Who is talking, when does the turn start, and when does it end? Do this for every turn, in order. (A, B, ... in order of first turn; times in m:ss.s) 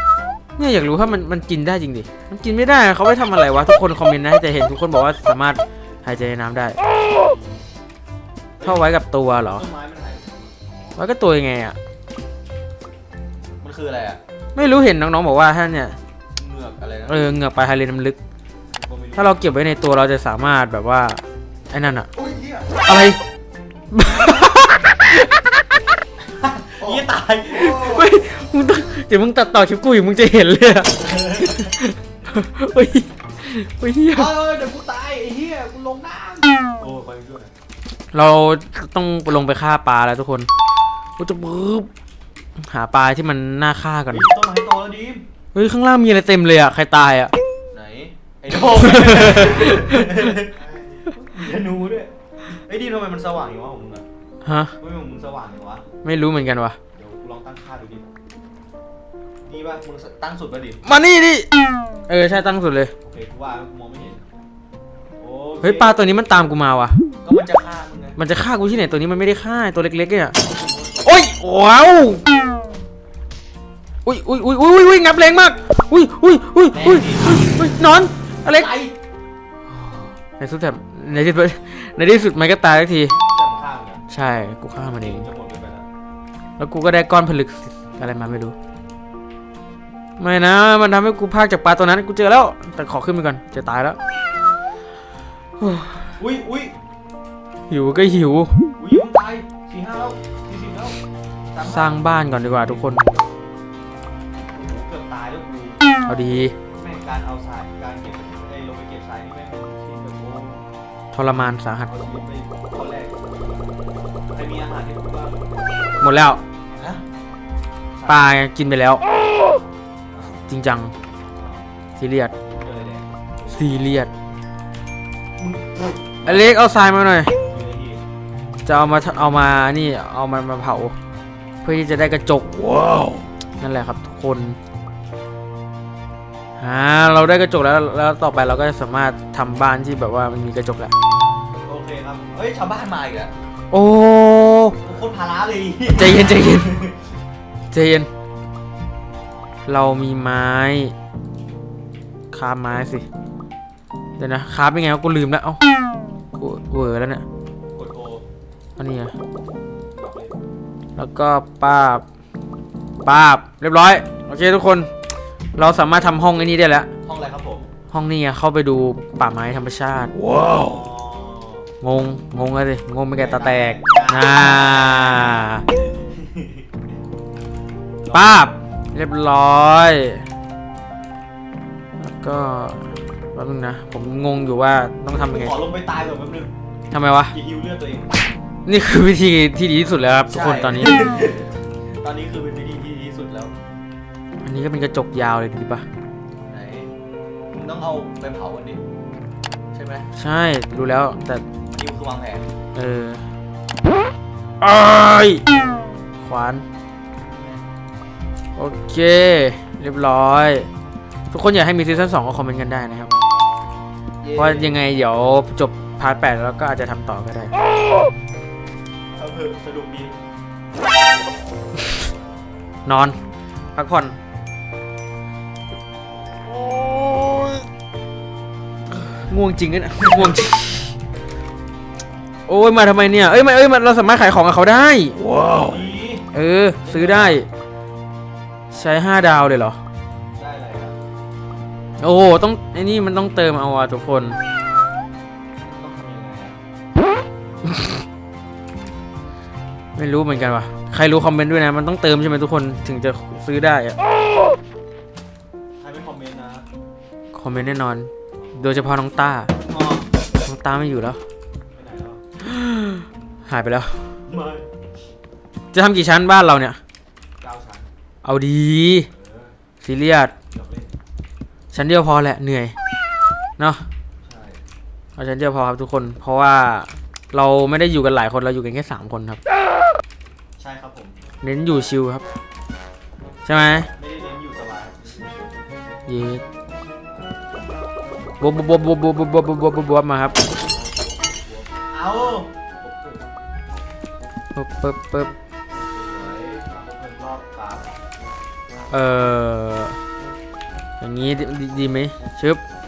0:00.6-0:06.8 A
0:07.0-0:07.7 B
0:08.6-0:11.0 B
0:08.6-0:09.7 A
0:11.0-0:11.8 A
0:13.6-0:14.2 B
0:14.6-0:16.0 A
0:16.4-0:17.4 B
0:17.1-0:18.2 A
0:18.7-0:19.4 B
0:19.2-0:22.1 A
0:22.2-0:22.8 C
0:22.8-0:23.2 A
0:23.9-0:25.4 A
0:26.3-0:27.9 B
0:27.5-0:28.2 C
0:27.6-0:34.3 A
0:30.9-0:31.7 B
0:34.1-0:37.5 B
0:38.1-0:40.5 A
0:41.2-0:41.9 A
0:42.6-0:44.3 A
0:44.1-0:45.2 B
0:45.5-0:47.3 A
0:47.7-0:50.6 B
0:48.8-0:50.2 A
0:50.5-0:51.0 C
0:51.1-0:54.0 B
0:54.4-0:54.7 A
0:54.8-0:55.9 B
0:56.0-0:56.8 A
0:56.9-0:58.1 B
0:59.4-1:00.8 B
1:00.8-1:01.5 A
1:02.1-1:02.9 A
1:03.0-1:04.3 B
1:05.2-1:06.0 B
1:05.6-1:07.0 A
1:07.2-1:08.2 B
1:08.2-1:10.4 A
1:10.4-1:11.3 B
1:11.0-1:12.2 A
1:14.0-1:18.7 A
1:16.7-1:17.5 B
1:18.4-1:18.9 B
1:19.7-1:23.2 A
1:23.3-1:24.0 B
1:24.1-1:25.3 A
1:25.0-1:25.9 B
1:26.6-1:28.6 A
1:30.2-1:34.0 A
1:35.6-1:36.1 A
1:36.2-1:36.8 B
1:37.7-1:38.6 A
1:38.8-1:41.0 B
1:41.5-1:42.9 B
1:41.6-1:43.0 A
1:44.5-1:45.9 B
1:46.0-1:46.6 A
1:46.7-1:50.6 B
1:51.1-1:51.9 A
1:51.9-1:53.2 B
1:54.3-1:55.4 B
1:56.0-1:56.4 A
1:56.8-1:57.0 B
1:58.0-1:58.3 B
1:58.1-1:59.0 A
2:00.5-2:00.9 A
2:01.3-2:01.7 B
2:02.0-2:02.3 A
2:02.4-2:03.7 B
2:03.5-2:04.1 A
2:05.4-2:06.7 B
2:06.2-2:07.3 A
2:07.5-2:08.0 B
2:08.6-2:11.0 A
2:11.6-2:14.6 A
2:16.6-2:20.9 A
2:21.6-2:23.3 B
2:23.7-2:24.8 A
2:24.8-2:27.1 B
2:25.9-2:26.7 A
2:27.7-2:28.1 A
2:29.7-2:30.9 A
2:32.3-2:33.1 A
2:34.2-2:35.6 A
2:36.4-2:37.2 A
2:37.7-2:38.2 B
2:38.8-2:39.1 A
2:39.9-2:40.4 B
2:41.0-2:42.0 A
2:43.0-2:44.9 A
2:45.6-2:46.9 A
2:47.0-2:47.7 B
2:47.9-2:50.2 A
2:50.3-2:51.7 B
2:51.8-2:55.6 A
2:53.2-2:55.4 B
2:56.0-2:56.9 B
2:58.0-2:58.5 B
2:58.1-3:00.2 A
3:02.0-3:05.6 A
3:05.2-3:06.5 B
3:06.9-3:07.3 A
3:07.3-3:08.3 B
3:08.7-3:11.1 A
3:10.3-3:13.6 B
3:14.4-3:15.8 A
3:16.5-3:16.9 B
3:17.5-3:18.8 B
3:19.7-3:20.1 B
3:20.1-3:21.4 A
3:21.7-3:22.5 B
3:22.8-3:23.2 A
3:24.6-3:25.4 A
3:26.2-3:26.6 A
3:27.3-3:27.6 B
3:28.6-3:30.7 A
3:31.3-3:33.1 A
3:34.2-3:34.8 B
3:34.4-3:37.5 A
3:39.2-3:40.2 B
3:42.8-3:43.2 A
3:43.8-3:44.2 A
3:46.5-3:47.6 A
3:48.9-3:50.9 A
3:52.5-3:55.8 A
3:55.4-3:56.3 B
3:56.3-3:57.5 A
3:56.8-3:57.4 B
3:58.7-3:59.8 A
4:00.3-4:01.0 B
4:02.0-4:04.4 A
4:05.6-4:06.6 B
4:10.0-4:14.0 A
4:15.8-4:16.7 B
4:17.3-4:19.5 A
4:19.6-4:20.1 B
4:20.4-4:21.2 A
4:21.7-4:22.2 B
4:22.4-4:24.0 A
4:24.3-4:24.7 B
4:25.7-4:26.8 A
4:27.4-4:27.9 B
4:28.2-4:29.1 A
4:29.1-4:29.6 B
4:29.8-4:30.3 A
4:30.5-4:31.0 B
4:31.7-4:32.8 A
4:34.2-4:34.6 B
4:35.2-4:39.4 A
4:40.6-4:41.2 B
4:41.4-4:42.2 A
4:43.4-4:43.9 A
4:43.9-4:45.4 B
4:46.1-4:46.4 A
4:48.4-4:50.4 A
4:50.5-4:53.2 B
4:54.6-4:55.3 A
4:55.7-4:58.0 B
4:58.9-5:00.0 A
5:01.0-5:02.6 A